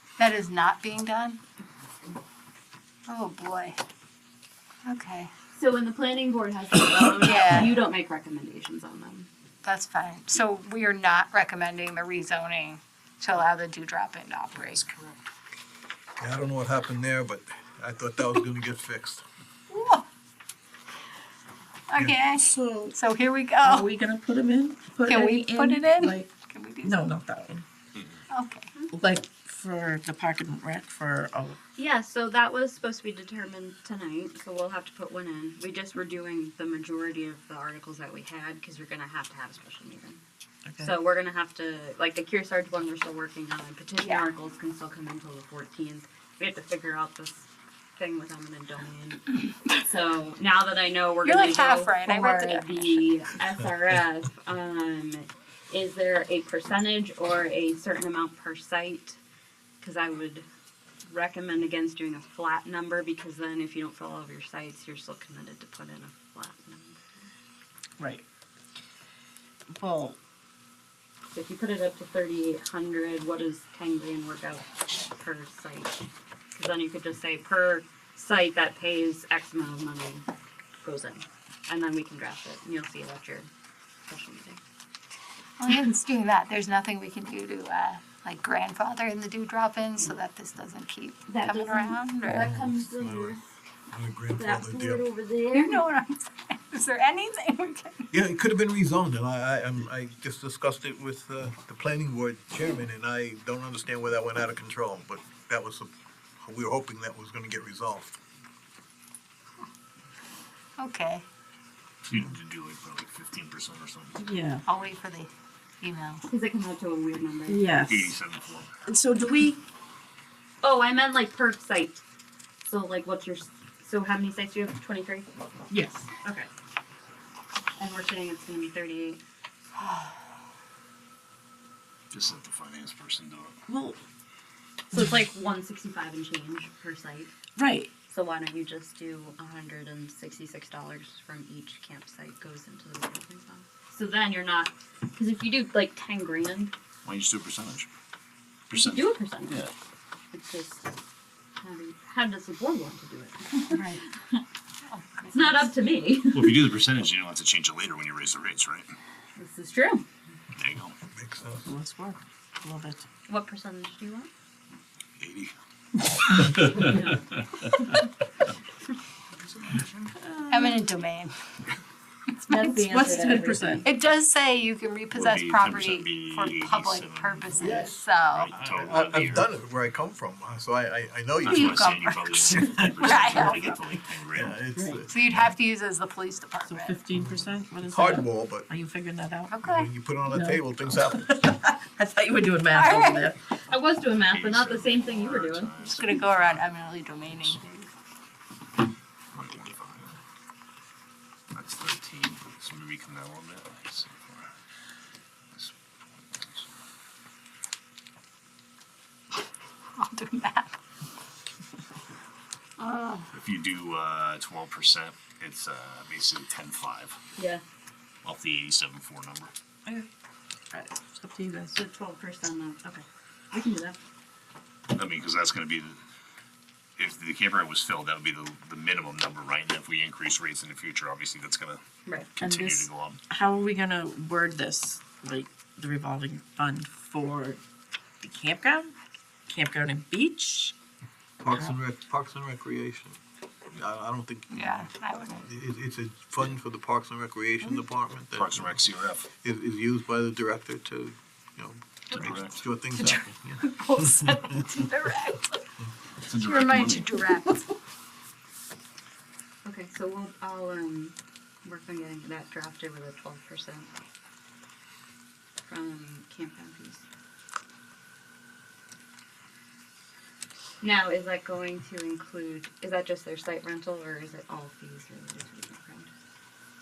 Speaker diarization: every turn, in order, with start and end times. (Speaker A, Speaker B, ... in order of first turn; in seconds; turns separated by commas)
Speaker A: 0.2-1.4, Speaker A: 3.1-3.8, Speaker A: 4.8-5.3, Speaker B: 5.5-9.3, Speaker A: 7.2-7.7, Speaker A: 9.6-14.9, Speaker C: 16.2-19.2, Speaker A: 19.7-20.0, Speaker A: 21.9-23.9, Speaker D: 22.4-22.9, Speaker D: 23.6-26.3, Speaker A: 25.0-27.0, Speaker D: 26.8-27.6, Speaker A: 28.3-28.7, Speaker D: 28.9-31.6, Speaker B: 31.8-40.2, Speaker B: 40.8-59.2, Speaker A: 51.2-53.0, Speaker B: 59.8-60.5, Speaker B: 61.0-67.0, Speaker D: 69.7-70.2, Speaker B: 71.3-76.0, Speaker B: 76.5-80.2, Speaker B: 80.8-83.5, Speaker B: 84.1-84.6, Speaker A: 85.6-92.5, Speaker B: 91.3-93.4, Speaker C: 92.3-93.4, Speaker C: 93.9-95.0, Speaker B: 94.3-95.9, Speaker A: 95.5-98.1, Speaker C: 98.1-108.2, Speaker A: 110.8-111.2, Speaker E: 112.0-114.2, Speaker D: 114.2-114.6, Speaker A: 114.7-115.3, Speaker A: 115.8-116.2, Speaker B: 116.3-117.8, Speaker D: 117.5-118.1, Speaker E: 117.8-118.7, Speaker D: 118.8-119.6, Speaker B: 120.6-122.0, Speaker B: 122.6-125.3, Speaker D: 125.7-126.1, Speaker B: 126.2-126.5, Speaker B: 127.8-129.2, Speaker E: 132.1-133.6, Speaker D: 133.7-134.0, Speaker B: 134.9-137.3, Speaker D: 137.6-137.9, Speaker B: 138.1-146.7, Speaker E: 147.0-147.9, Speaker E: 148.7-149.7, Speaker B: 148.7-149.7, Speaker B: 150.3-150.9, Speaker B: 151.6-153.8, Speaker A: 153.7-154.0, Speaker A: 154.9-155.7, Speaker B: 155.3-156.6, Speaker E: 156.3-158.9, Speaker B: 159.4-160.1, Speaker E: 160.6-160.9, Speaker C: 161.1-161.7, Speaker D: 161.6-163.0, Speaker B: 163.3-164.3, Speaker E: 165.2-165.5, Speaker E: 166.4-167.0, Speaker B: 166.8-167.2, Speaker D: 170.2-170.9, Speaker A: 170.5-171.3, Speaker A: 172.4-172.7, Speaker B: 172.4-173.9, Speaker D: 172.6-173.8, Speaker A: 173.8-178.5, Speaker E: 175.1-179.5, Speaker C: 177.6-177.9, Speaker C: 178.6-182.0, Speaker E: 181.4-184.6, Speaker A: 181.4-183.7, Speaker C: 182.5-183.1, Speaker C: 184.3-185.5, Speaker D: 184.8-185.0, Speaker A: 185.1-187.0, Speaker D: 186.6-189.5, Speaker C: 187.1-188.7, Speaker A: 189.5-189.9, Speaker C: 189.6-191.4, Speaker D: 190.3-190.6, Speaker D: 191.2-193.4, Speaker A: 192.7-193.3, Speaker B: 193.7-195.7, Speaker E: 194.1-196.7, Speaker A: 195.8-197.6, Speaker E: 197.3-197.8, Speaker E: 199.3-200.1, Speaker E: 201.5-204.5, Speaker E: 205.5-206.7, Speaker A: 209.9-210.7, Speaker A: 212.8-213.3, Speaker E: 213.3-217.2, Speaker B: 217.3-217.6, Speaker E: 218.2-219.5, Speaker D: 220.7-221.8, Speaker B: 221.7-224.0, Speaker E: 224.9-226.0, Speaker E: 227.0-231.8, Speaker E: 232.4-233.2, Speaker D: 232.4-237.6, Speaker D: 238.2-238.9, Speaker D: 239.5-240.7, Speaker C: 241.4-243.2, Speaker C: 243.7-248.8, Speaker A: 244.5-245.5, Speaker E: 248.3-249.3, Speaker C: 249.4-254.6, Speaker E: 252.1-253.2, Speaker A: 253.7-255.6, Speaker E: 256.2-257.3, Speaker A: 256.3-257.7, Speaker B: 259.6-263.9, Speaker B: 265.6-267.0, Speaker B: 270.8-276.1